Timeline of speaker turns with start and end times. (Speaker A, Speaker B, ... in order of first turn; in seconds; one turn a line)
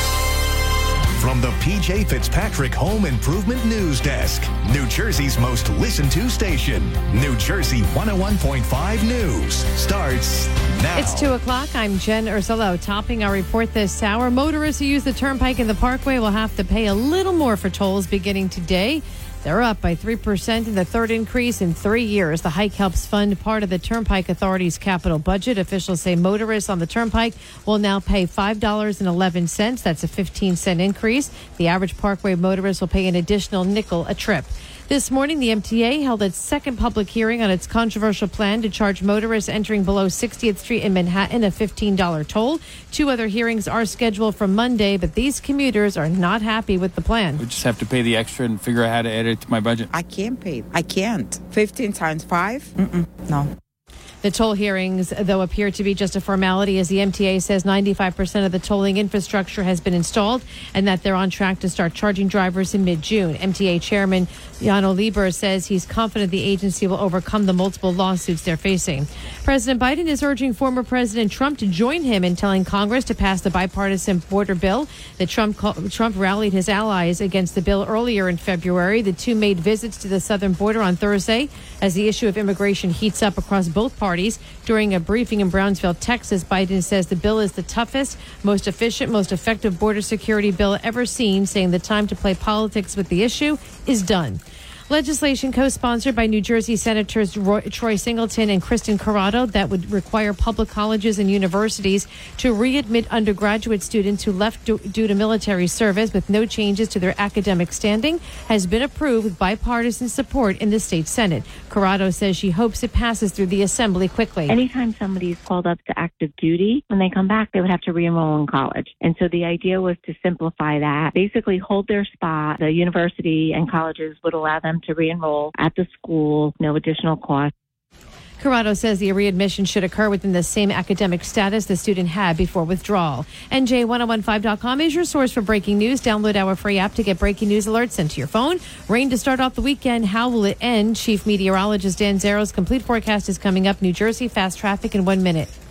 Speaker A: 1.2-11.3
Speaker B: 10.9-47.4
Speaker C: 47.4-49.9
Speaker D: 49.9-53.5
Speaker B: 54.2-114.6
Speaker E: 114.5-127.5
Speaker B: 128.4-145.5